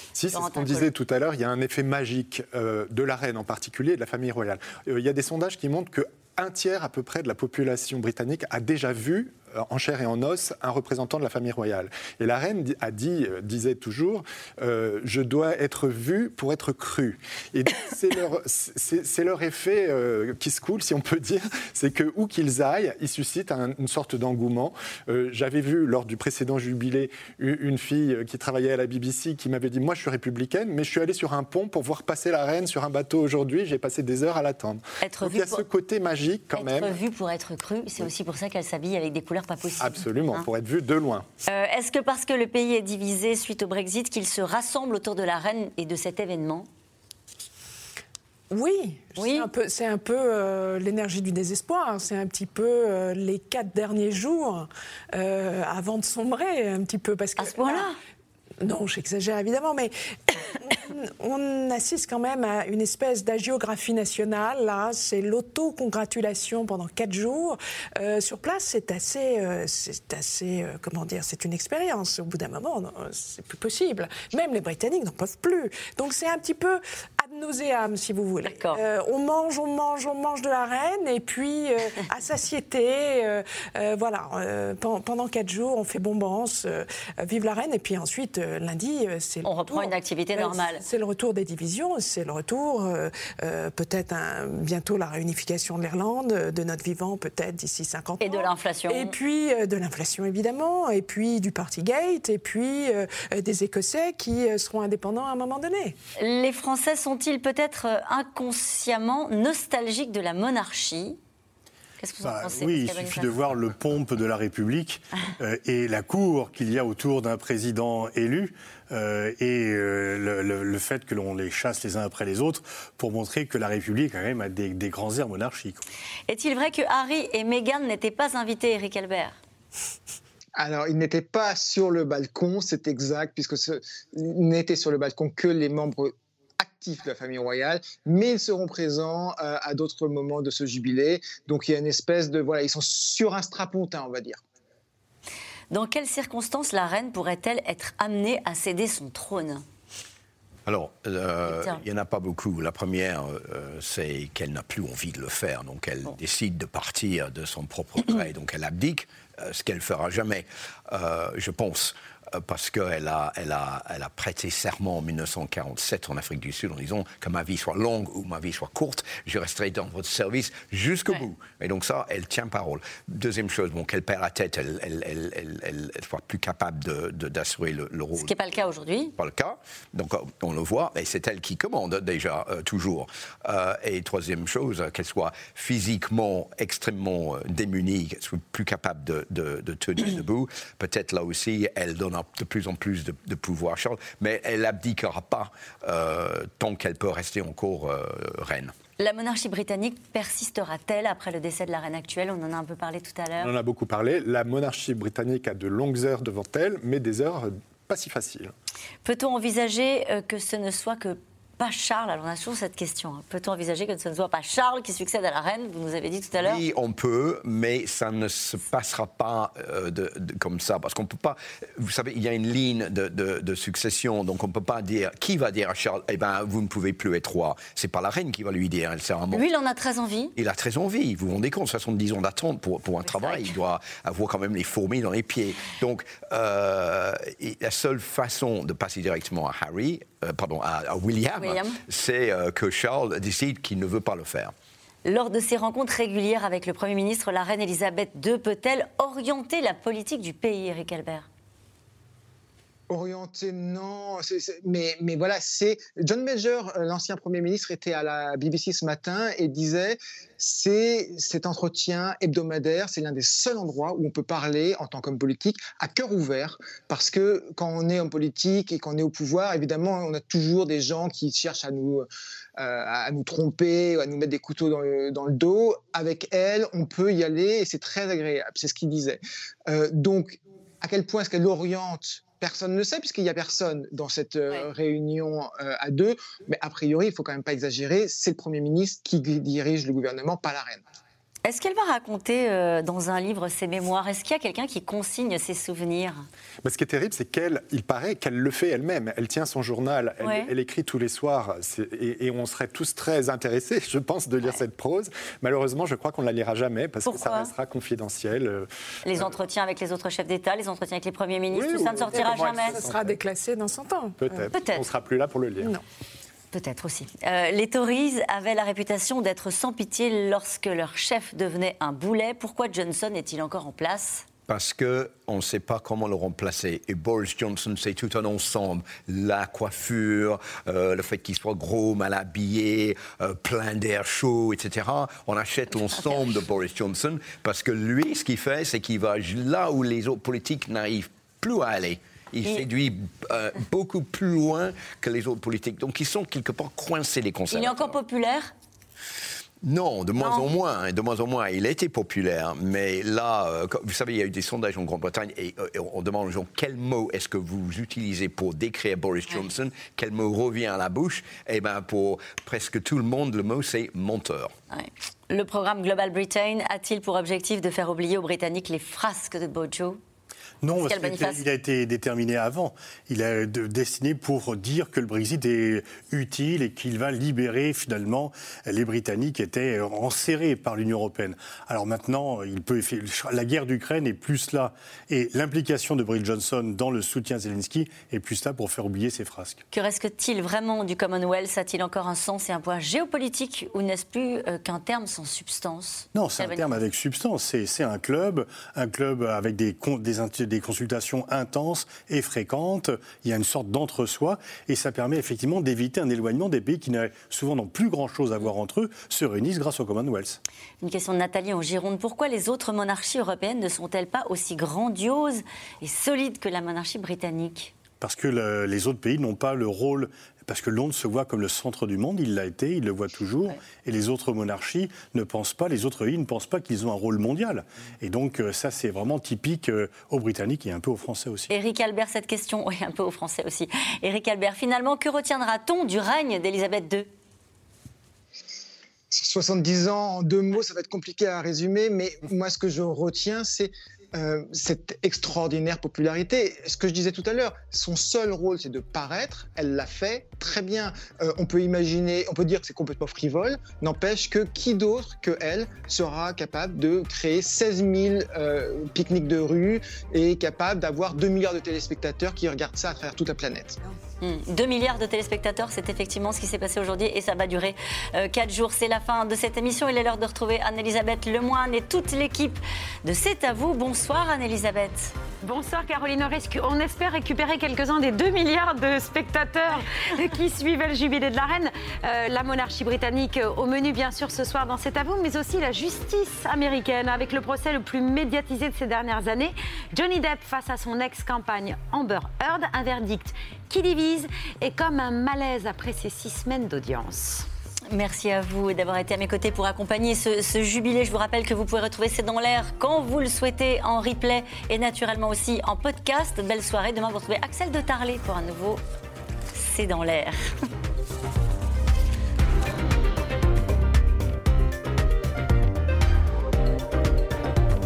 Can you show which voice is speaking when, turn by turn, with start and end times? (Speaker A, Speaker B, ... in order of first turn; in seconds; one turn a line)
Speaker A: 0.1-37.0
Speaker B: 0.3-0.9
Speaker B: 35.0-35.6
Speaker B: 36.5-40.5
Speaker A: 39.8-41.3
Speaker B: 41.5-46.7
Speaker C: 48.5-57.9
Speaker B: 49.2-49.5
Speaker B: 57.4-58.0
Speaker C: 58.6-106.0
Speaker B: 78.4-78.8
Speaker B: 89.4-90.8
Speaker B: 98.2-99.1
Speaker B: 106.2-111.2
Speaker B: 112.0-113.4
Speaker D: 112.2-125.8
Speaker B: 126.3-129.4
Speaker E: 130.6-144.4
Speaker B: 145.7-149.6
Speaker F: 150.7-178.3
Speaker B: 151.5-151.8
Speaker B: 178.2-179.2
Speaker F: 179.2-198.7
Speaker B: 199.0-203.5
Speaker A: 203.4-208.5
Speaker B: 209.0-216.6
Speaker F: 216.4-229.4
Speaker B: 229.3-230.3
Speaker F: 230.4-244.5
Speaker B: 233.1-233.5
Speaker B: 241.4-241.8
Speaker B: 245.1-251.3
Speaker E: 252.9-290.8
Speaker B: 291.4-296.3
Speaker A: 296.6-309.3
Speaker B: 300.2-300.5
Speaker B: 307.1-307.5
Speaker B: 309.1-312.8
Speaker A: 311.5-313.2
Speaker C: 312.1-314.5
Speaker A: 314.2-315.8
Speaker B: 314.5-314.9
Speaker B: 316.5-324.2
Speaker F: 324.5-348.0
Speaker B: 335.7-336.4
Speaker B: 347.5-348.5
Speaker F: 349.6-364.5
Speaker B: 350.2-350.5
Speaker B: 364.7-370.0
Speaker D: 370.6-389.6
Speaker B: 370.8-371.4
Speaker B: 389.7-396.8
Speaker D: 396.1-410.4
Speaker B: 410.8-417.7
Speaker D: 418.0-431.5
Speaker B: 431.5-437.1
Speaker E: 439.1-463.8
Speaker B: 464.2-475.1
Speaker G: 475.4-497.5
Speaker B: 497.9-508.8
Speaker B: 509.5-510.4